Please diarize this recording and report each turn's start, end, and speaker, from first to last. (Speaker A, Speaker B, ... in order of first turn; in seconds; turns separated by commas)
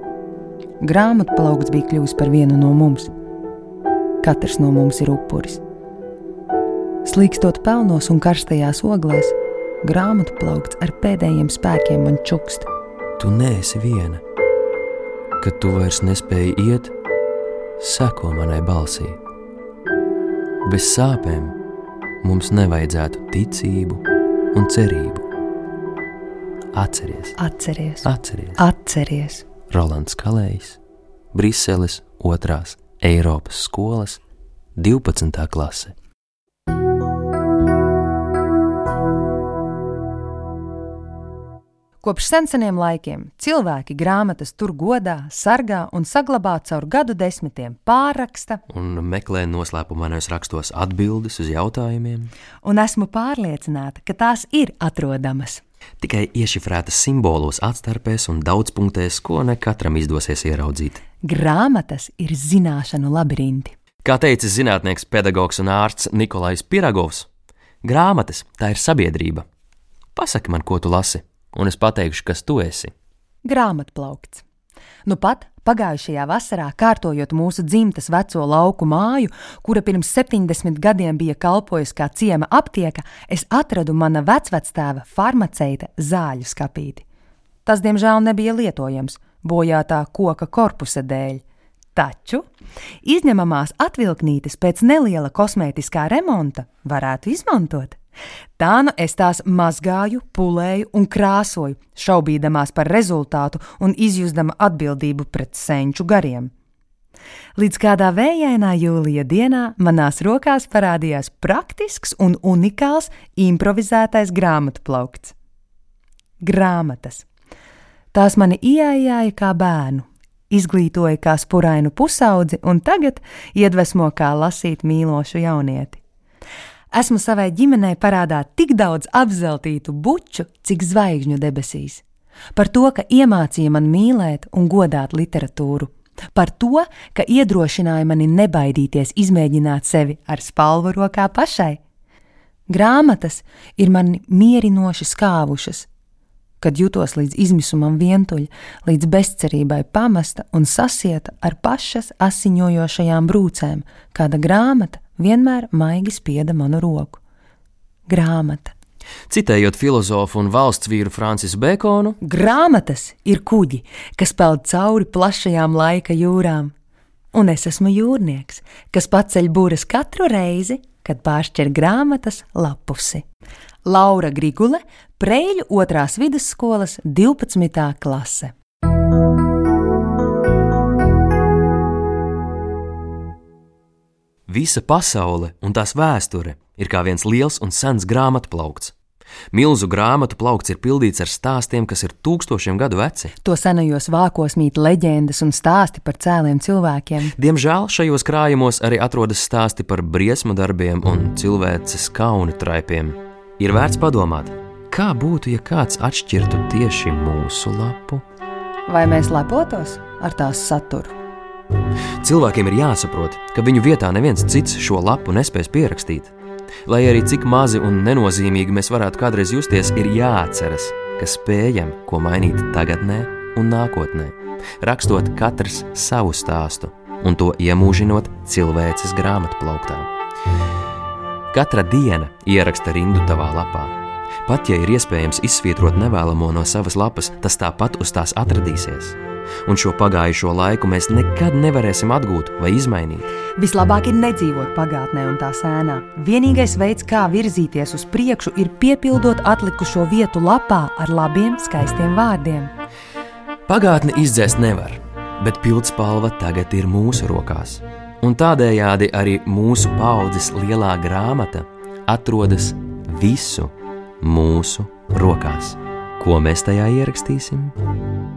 Speaker A: 0.8-3.1, Speaker A: 4.2-5.6, Speaker A: 7.0-12.7, Speaker B: 13.2-14.2, Speaker B: 15.4-16.9, Speaker B: 17.8-19.2, Speaker B: 20.6-21.6, Speaker B: 22.2-25.2, Speaker B: 26.7-27.4, Speaker A: 27.4-29.4, Speaker B: 28.0-28.6, Speaker B: 29.7-30.8, Speaker B: 31.3-34.2, Speaker B: 34.8-35.9, Speaker A: 42.0-48.6, Speaker B: 48.7-52.3, Speaker A: 52.6-55.6, Speaker B: 56.0-61.0, Speaker A: 61.2-63.8, Speaker B: 64.0-67.3, Speaker B: 67.8-69.4, Speaker B: 70.2-72.9, Speaker A: 73.4-74.4, Speaker A: 75.0-87.0, Speaker A: 87.7-91.4, Speaker A: 91.9-92.4, Speaker A: 93.0-98.0, Speaker A: 98.6-106.5, Speaker A: 107.5-115.3, Speaker A: 116.4-117.2, Speaker A: 118.1-126.0, Speaker A: 126.9-132.0, Speaker A: 132.6-141.8, Speaker A: 142.7-145.9, Speaker A: 146.6-157.2, Speaker A: 158.1-158.7, Speaker B: 159.3-162.2, Speaker A: 162.2-166.7, Speaker A: 167.3-173.2, Speaker A: 173.8-178.5, Speaker B: 184.5-188.9, Speaker B: 189.5-193.3, Speaker A: 193.4-197.3, Speaker B: 197.3-208.2, Speaker A: 208.9-211.1, Speaker B: 212.2-216.3, Speaker B: 216.9-230.1, Speaker B: 231.5-233.9, Speaker B: 234.4-243.3, Speaker A: 243.6-252.7, Speaker B: 253.7-267.8